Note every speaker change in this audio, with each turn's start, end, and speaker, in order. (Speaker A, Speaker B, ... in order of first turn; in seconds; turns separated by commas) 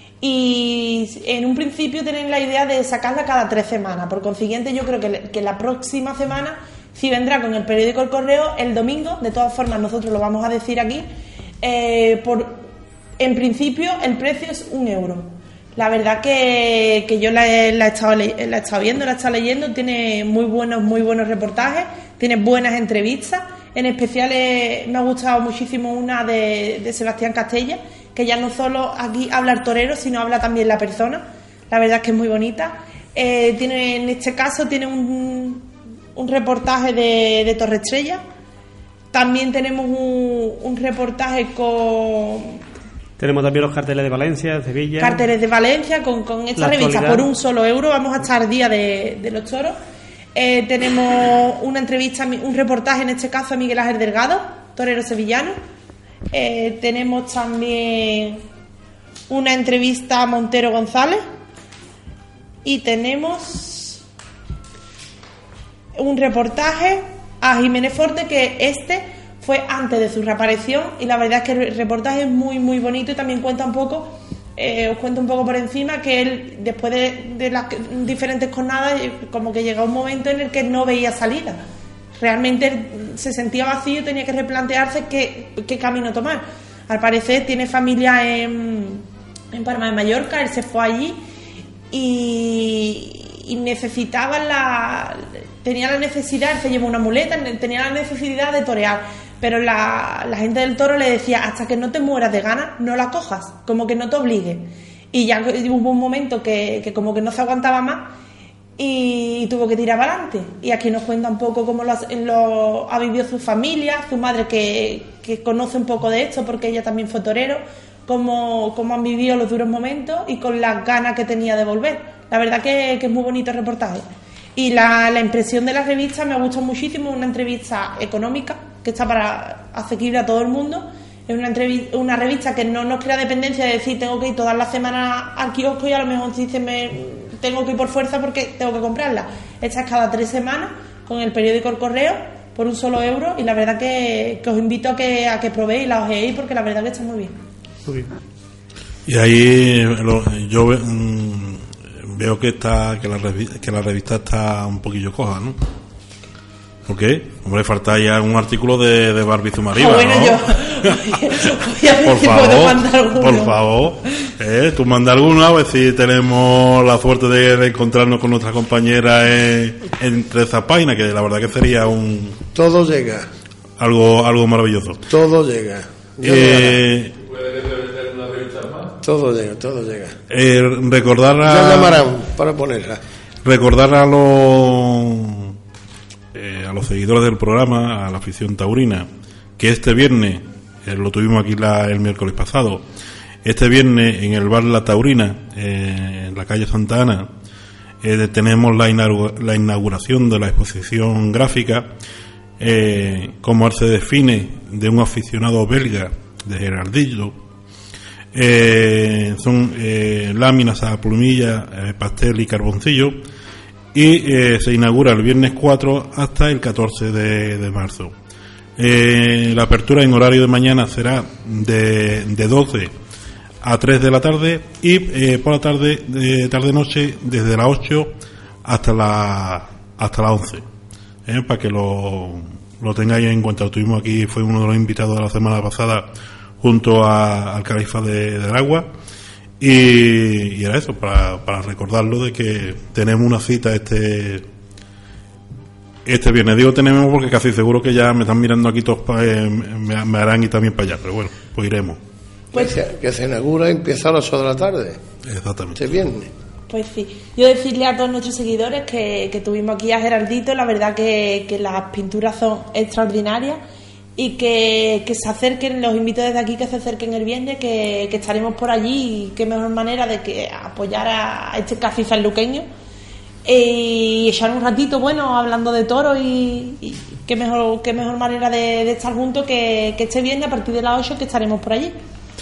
Speaker A: 0.2-11.1, Speaker A: 11.6-12.7, Speaker A: 13.2-38.2, Speaker A: 39.1-42.6, Speaker B: 43.2-45.2, Speaker A: 45.0-49.8, Speaker B: 46.6-47.3, Speaker A: 50.3-55.6, Speaker A: 56.3-58.4, Speaker A: 59.3-61.2, Speaker A: 62.6-64.0, Speaker A: 65.9-81.6, Speaker A: 82.2-91.2, Speaker A: 91.9-108.2, Speaker A: 108.8-147.3, Speaker B: 147.8-148.1, Speaker C: 149.1-155.6, Speaker C: 156.8-161.1, Speaker A: 159.7-163.6, Speaker C: 162.0-172.4, Speaker D: 172.5-173.3, Speaker C: 173.8-175.0, Speaker D: 175.1-176.8, Speaker C: 176.2-177.1, Speaker D: 178.5-180.2, Speaker C: 180.3-182.0, Speaker D: 181.4-183.0, Speaker C: 183.4-185.5, Speaker C: 186.3-189.1, Speaker C: 189.6-192.8, Speaker C: 193.4-197.3, Speaker C: 198.0-201.9, Speaker C: 202.6-207.3, Speaker C: 208.3-213.2, Speaker C: 213.9-218.1, Speaker C: 218.8-222.9, Speaker C: 223.6-228.1, Speaker C: 228.6-230.6, Speaker C: 231.3-236.1, Speaker C: 236.6-238.9, Speaker C: 239.6-244.4, Speaker C: 246.1-252.0, Speaker D: 252.5-255.0, Speaker C: 255.2-255.9, Speaker D: 255.7-256.3, Speaker A: 256.7-263.6, Speaker A: 264.1-272.6, Speaker A: 273.4-281.9